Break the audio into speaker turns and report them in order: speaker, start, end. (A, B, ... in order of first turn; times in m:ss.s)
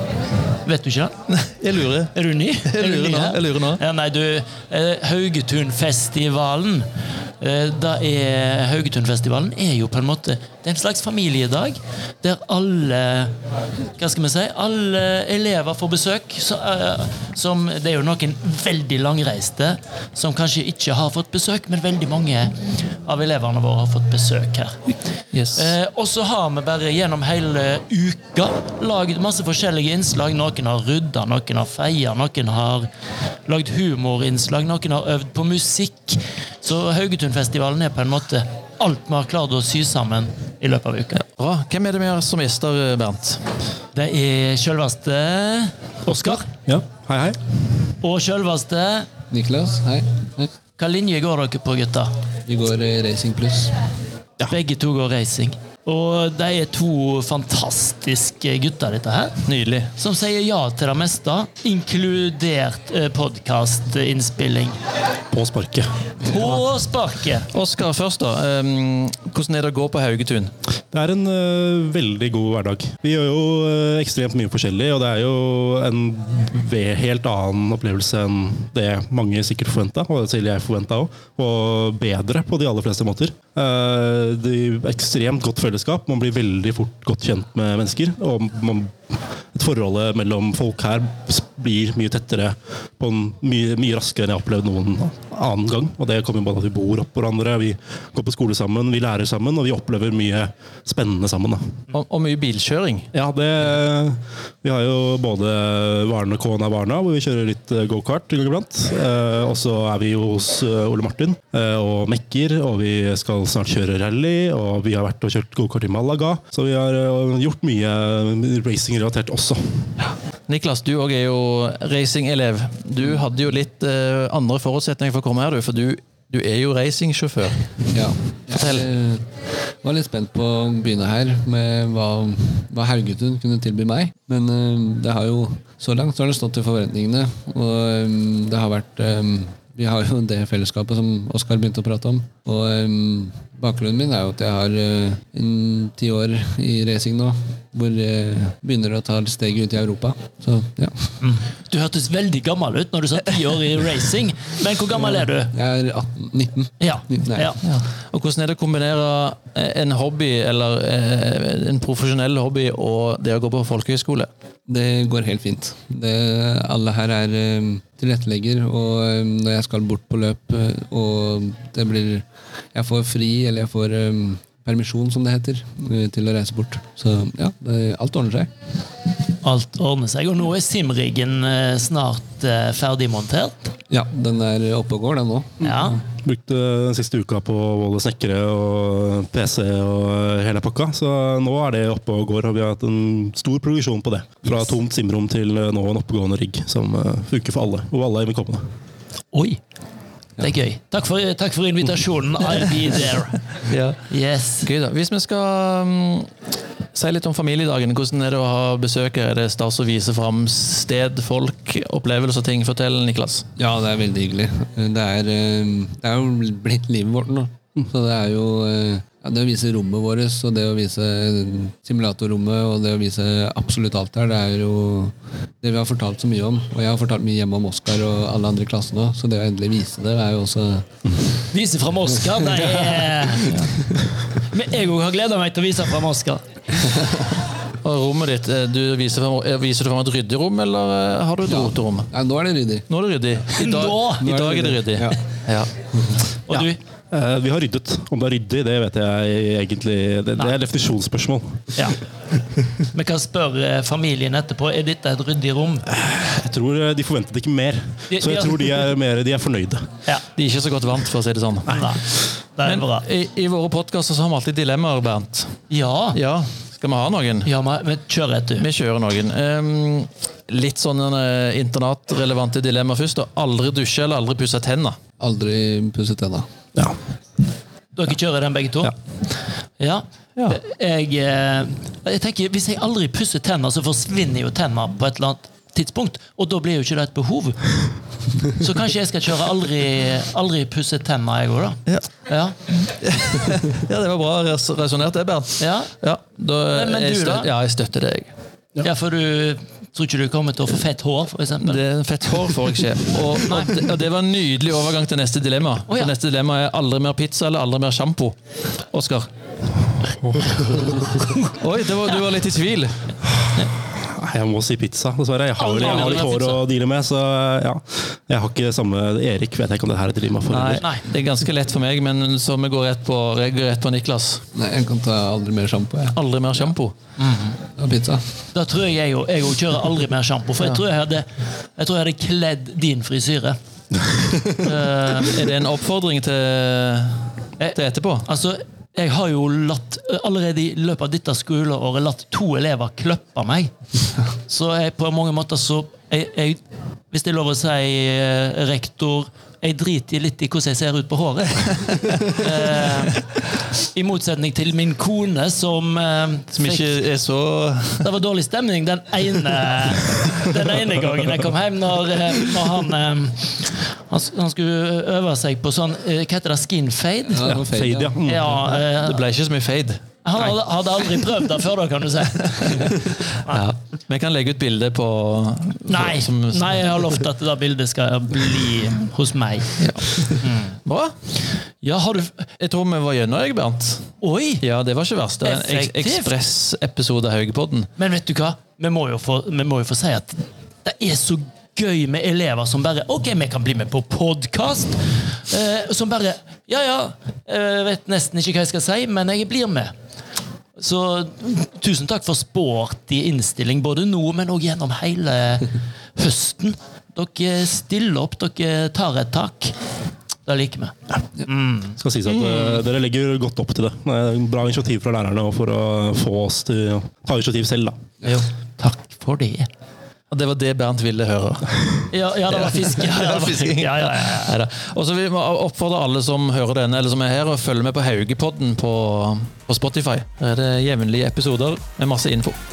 0:00.6-0:01.1 A
0:01.3-0:02.1 B
0:02.1-0:06.9 A
0:02.6-0:03.8 B
0:07.4-0:13.3 A
0:14.0-0:24.8 A
0:25.3-0:25.7 B
0:25.5-0:32.9 A
0:33.4-0:41.2 A
0:41.2-0:43.4 B
0:43.9-0:46.5 A
0:46.3-0:47.4 C
0:48.0-0:49.1 A
0:49.3-0:50.5 D
0:50.8-0:52.1 A
0:52.5-0:53.8 D
0:54.5-0:59.4 A
0:59.4-0:59.9 B
0:59.9-1:04.7 A
1:05.3-1:05.9 C
1:06.2-1:07.5 A
1:07.5-1:10.5 B
1:10.9-1:41.7 C
1:41.9-1:43.1 B
1:43.1-1:59.9 C
2:00.5-2:07.6 B
2:07.9-2:31.2 D
2:08.5-2:08.8 B
2:31.2-2:35.5 A
2:35.5-2:37.5 D
2:36.8-2:37.6 A
2:37.6-2:44.3 B
2:44.7-2:58.5 D
2:59.4-3:03.7 A
3:03.9-3:05.7 D
3:05.6-3:06.0 A
3:05.9-3:18.6 C
3:19.3-3:19.6 A
3:20.4-3:23.4 A
3:23.7-3:24.0 B
3:24.1-3:24.7 A
3:24.6-3:26.3 B
3:26.9-3:33.5 B
3:33.6-3:50.9 D
3:51.5-3:53.6 A
3:52.7-3:53.7 D
3:54.3-3:56.9 A
3:57.8-4:02.1 B
4:01.4-4:02.9 D
4:02.9-4:05.7 B
4:03.5-4:04.3 A
4:04.2-4:05.2 D
4:06.5-4:06.8 A
4:06.5-4:11.7 C
4:11.7-4:12.0 A
4:12.8-4:15.9 A
4:16.0-4:19.9 C
4:18.1-4:18.8 A
4:20.4-4:21.9 B
4:21.7-4:23.0 A
4:22.6-4:25.6 B
4:25.7-4:26.2 A
4:26.1-4:27.5 B
4:27.4-4:28.7 A
4:28.6-4:35.0 B
4:35.2-4:36.4 D
4:37.9-4:38.9 A
4:39.8-4:47.7 A
4:48.4-4:52.6 A
4:52.8-4:58.3 B
4:55.6-4:55.9 A
4:56.7-4:57.5 A
4:58.8-5:01.8 A
5:01.6-5:08.4 B
5:03.5-5:03.7 A
5:05.9-5:06.1 A
5:08.9-5:09.3 B
5:10.2-5:11.0 C
5:11.6-5:13.1 B
5:13.8-5:20.8 C
5:15.6-5:16.6 A
5:15.8-5:16.5 B
5:20.5-5:24.4 B
5:24.5-5:26.2 D
5:26.1-5:26.9 B
5:27.2-5:27.6 A
5:27.8-5:28.2 D
5:28.5-5:33.6 A
5:34.5-5:35.4 A
5:35.1-5:38.2 B
5:37.6-5:43.7 A
5:44.4-5:46.6 A
5:47.1-5:57.0 A
5:56.5-5:58.1 B
5:58.0-6:07.6 A
6:07.3-6:08.2 D
6:07.7-6:08.6 C
6:08.2-6:09.2 A
6:08.5-6:10.5 B
6:10.2-6:13.6 A
6:12.6-6:17.2 B
6:15.8-6:20.8 A
6:19.8-6:21.1 B
6:21.8-6:22.5 A
6:22.6-6:27.9 B
6:24.2-6:24.6 A
6:25.4-6:26.3 A
6:28.0-6:39.9 A
6:40.8-6:49.7 A
6:50.4-6:52.0 A
6:52.0-6:58.0 C
6:58.2-6:59.7 A
7:00.3-7:12.6 B
7:02.1-7:04.6 A